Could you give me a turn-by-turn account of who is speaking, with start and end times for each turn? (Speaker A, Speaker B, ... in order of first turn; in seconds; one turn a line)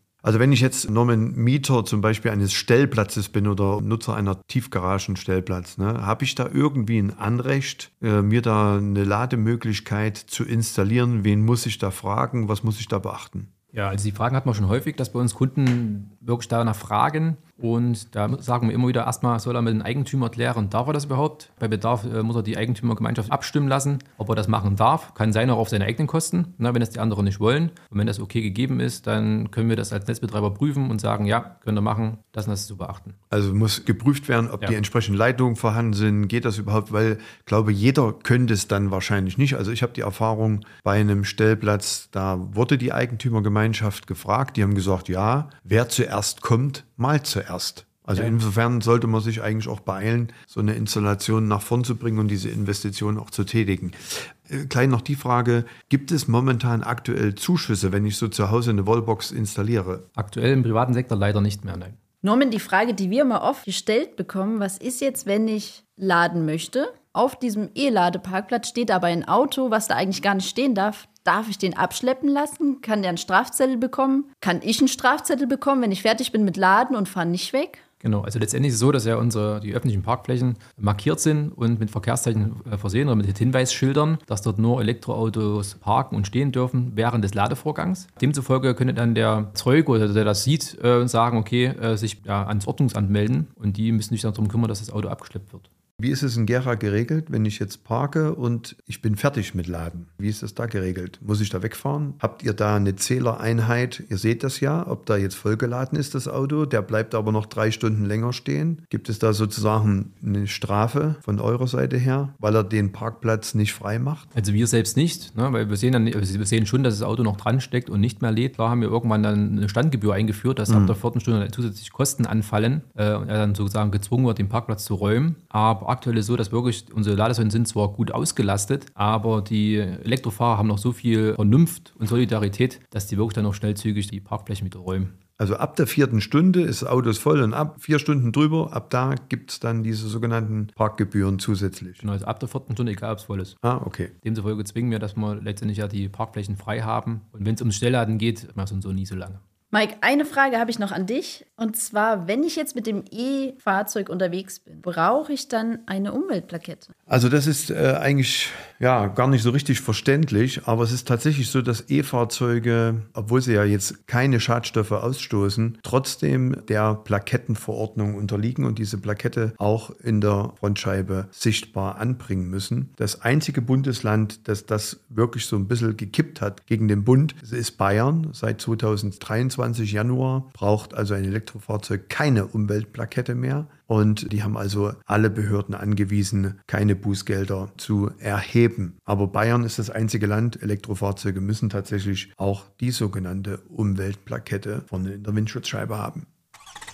Speaker A: 0.2-13.5
Speaker B: 13.7-33.2
Speaker A: 33.3-60.0
Speaker B: 60.1-62.0
Speaker C: 62.2-77.8
Speaker B: 78.0-95.7
Speaker A: 96.0-114.3
Speaker B: 114.3-135.1
Speaker A: 120.7-121.0
Speaker A: 135.4-142.0
Speaker B: 142.0-143.6
Speaker A: 143.6-144.1
Speaker B: 144.2-149.4
Speaker C: 149.7-156.9
Speaker A: 157.1-196.3